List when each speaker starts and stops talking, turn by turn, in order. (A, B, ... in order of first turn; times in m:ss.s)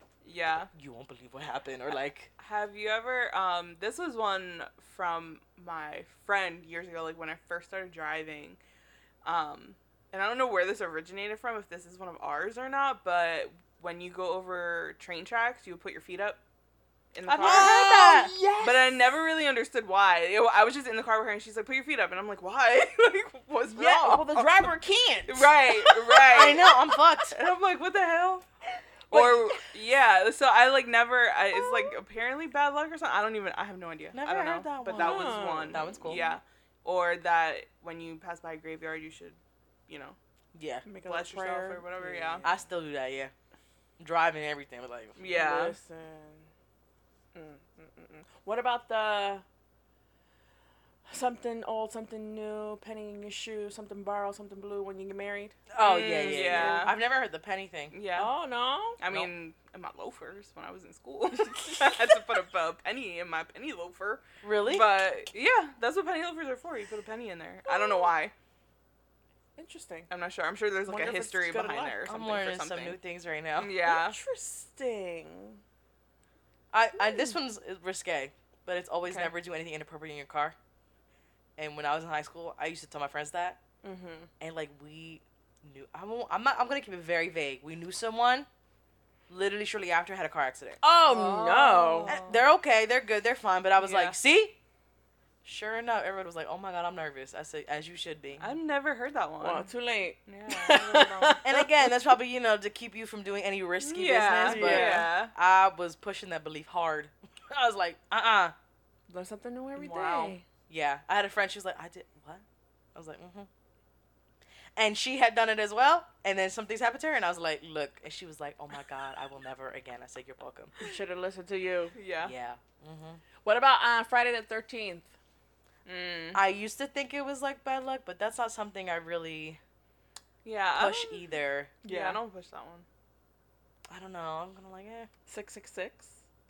0:00.2-0:00.7 A
0:00.7-0:02.3 B
0:02.4-0:08.6 A
0:09.2-0:16.4 A
0:17.1-0:24.7 A
0:17.2-0:18.4 B
0:17.3-0:19.0 C
0:23.7-0:26.7 C
0:25.3-0:26.7 A
0:26.3-0:28.4 B
0:27.5-0:28.3 A
0:29.1-0:29.6 C
0:29.1-0:40.2 A
0:34.1-0:36.2 B
0:34.9-0:36.4 C
0:40.5-0:40.9 B
0:40.9-0:42.6 C
0:41.0-0:42.5 A
0:42.4-0:43.3 B
0:44.0-0:45.2 B
0:45.2-0:45.8 A
0:45.3-0:46.5 C
0:47.3-0:49.4 C
0:51.1-0:55.6 C
0:55.7-0:58.0 B
0:55.8-0:57.0 A
0:56.3-0:56.9 C
0:57.9-0:58.3 A
0:58.2-0:59.0 C
0:59.0-1:08.3 A
1:01.4-1:02.0 C
1:04.4-1:04.9 B
1:07.7-1:08.1 C
1:09.6-1:10.1 C
1:10.1-1:13.0 A
1:10.9-1:12.0 C
1:12.0-1:13.8 B
1:13.6-1:14.2 A
1:13.8-1:15.6 C
1:16.7-1:20.6 B
1:21.6-1:23.6 B
1:23.8-1:24.3 C
1:24.4-1:28.5 B
1:29.3-1:30.8 B
1:30.8-1:32.2 C
1:31.1-1:32.4 A
1:32.1-1:34.6 B
1:33.8-1:34.2 A
1:35.4-1:38.5 B
1:38.4-1:39.7 A
1:39.4-1:41.6 C
1:40.3-1:41.5 A
1:41.4-1:48.6 B
1:43.8-1:45.3 A
1:44.4-1:45.1 C
1:49.1-1:50.4 C
1:49.8-1:50.4 A
1:50.7-1:53.5 B
1:54.8-2:00.7 B
2:00.8-2:02.0 C
2:01.9-2:02.3 A
2:02.2-2:03.2 B
2:03.4-2:05.1 C
2:05.9-2:06.4 A
2:06.3-2:09.6 B
2:10.4-2:11.2 A
2:10.8-2:11.8 B
2:11.8-2:12.9 A
2:11.8-2:12.2 C
2:13.9-2:15.1 B
2:15.3-2:16.2 C